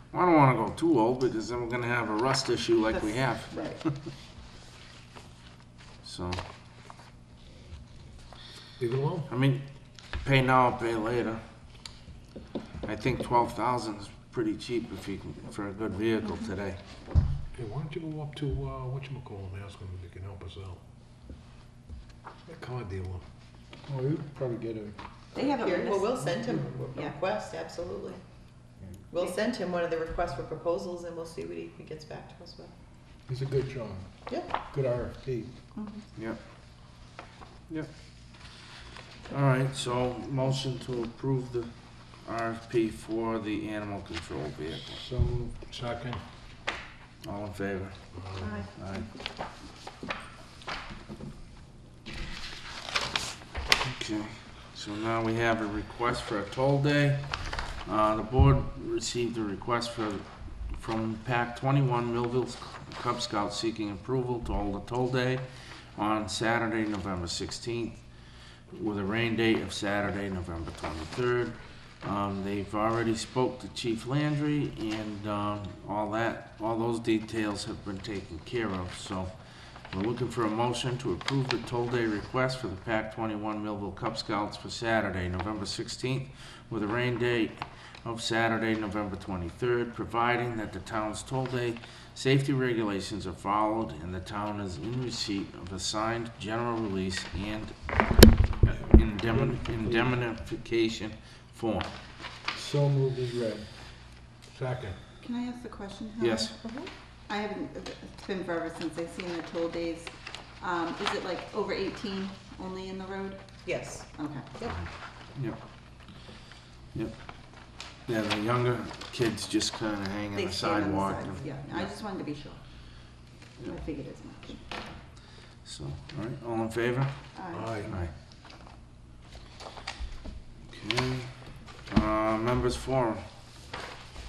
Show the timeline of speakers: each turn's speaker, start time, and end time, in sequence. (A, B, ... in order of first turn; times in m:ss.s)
0:00.1-0:03.8 A
0:03.0-0:03.8 B
0:06.0-0:06.4 A
0:08.8-0:09.3 C
0:09.3-0:09.6 A
0:10.2-0:11.4 A
0:12.8-0:16.8 A
0:17.5-0:20.8 C
0:22.5-0:23.2 C
0:23.9-0:25.0 D
0:25.4-0:26.2 B
0:25.4-0:28.2 E
0:29.1-0:32.7 E
0:33.3-0:35.6 D
0:35.8-0:36.0 B
0:39.3-0:41.7 A
0:42.2-0:45.0 A
0:45.0-0:45.6 D
0:45.6-0:46.2 C
0:47.2-0:48.0 A
0:48.2-0:48.5 C
0:48.4-0:48.7 B
0:48.7-0:49.1 A
0:53.9-1:05.4 A
1:06.0-1:08.0 A
1:08.7-1:19.3 A
1:19.9-1:38.0 A
1:38.6-1:41.9 A
1:39.5-1:40.1 D
1:42.5-1:43.7 D
1:44.5-1:45.0 C
1:45.2-1:46.5 B
1:46.2-1:46.5 A
1:46.6-1:46.9 E
1:47.3-1:53.4 B
1:53.6-1:54.8 E
1:54.1-1:54.5 B
1:58.1-2:01.9 A
2:00.4-2:02.6 B
2:03.7-2:04.6 B
2:05.6-2:07.2 A
2:07.4-2:07.8 B
2:07.5-2:07.9 C
2:07.9-2:08.1 A
2:10.7-2:11.3 A
2:11.9-2:13.2 A